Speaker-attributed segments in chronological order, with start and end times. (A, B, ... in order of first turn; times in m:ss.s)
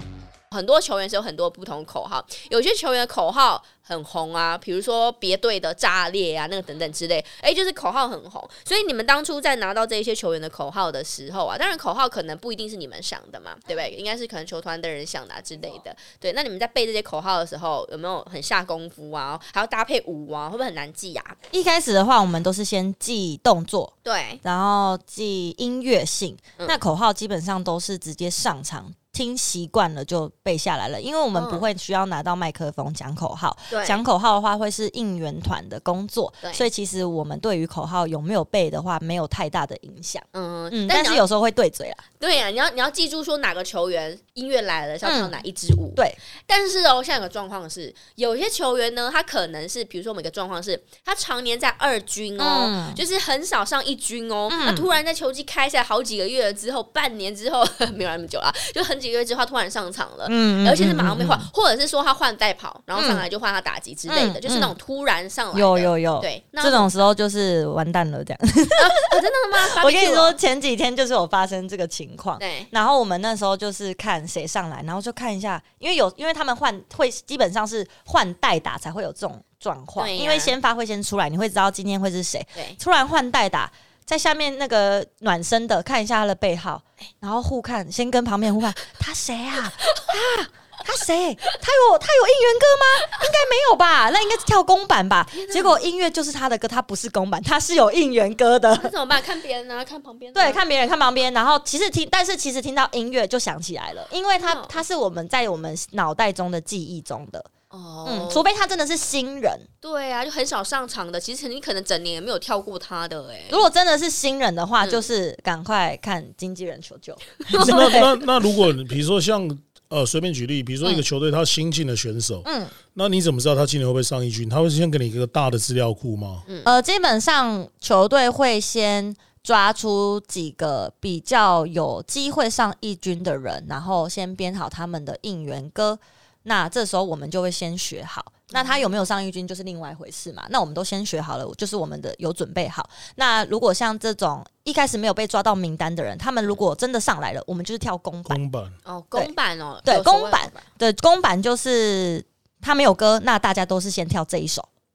0:00.5-0:21.4 A
0:21.5-0:42.0 B
0:24.0-0:24.4 A
0:31.3-0:31.6 A
0:33.7-0:34.0 A
0:36.4-0:36.7 A
0:40.3-0:41.2 A
0:42.2-1:06.9 A
0:45.0-0:45.3 B
0:52.4-0:53.0 B
0:54.5-0:54.9 B
1:00.2-1:01.5 B
1:02.9-1:03.2 B
1:04.1-1:04.7 B
1:05.5-1:09.0 B
1:08.8-1:10.4 A
1:09.7-1:38.9 B
1:12.4-1:12.7 A
1:20.0-1:20.5 A
1:35.3-1:35.8 A
1:38.8-1:40.6 A
1:40.3-1:47.5 B
1:44.4-1:44.8 A
1:47.7-1:48.4 A
1:48.0-1:49.7 B
1:49.8-1:53.6 A
1:53.5-1:58.1 B
1:57.4-1:58.1 A
1:57.5-2:06.4 C
2:02.4-2:02.7 B
2:06.5-2:06.7 A
2:06.6-2:28.4 B
2:18.5-2:18.8 A
2:28.3-2:28.8 C
2:28.8-2:30.7 A
2:29.8-2:34.7 B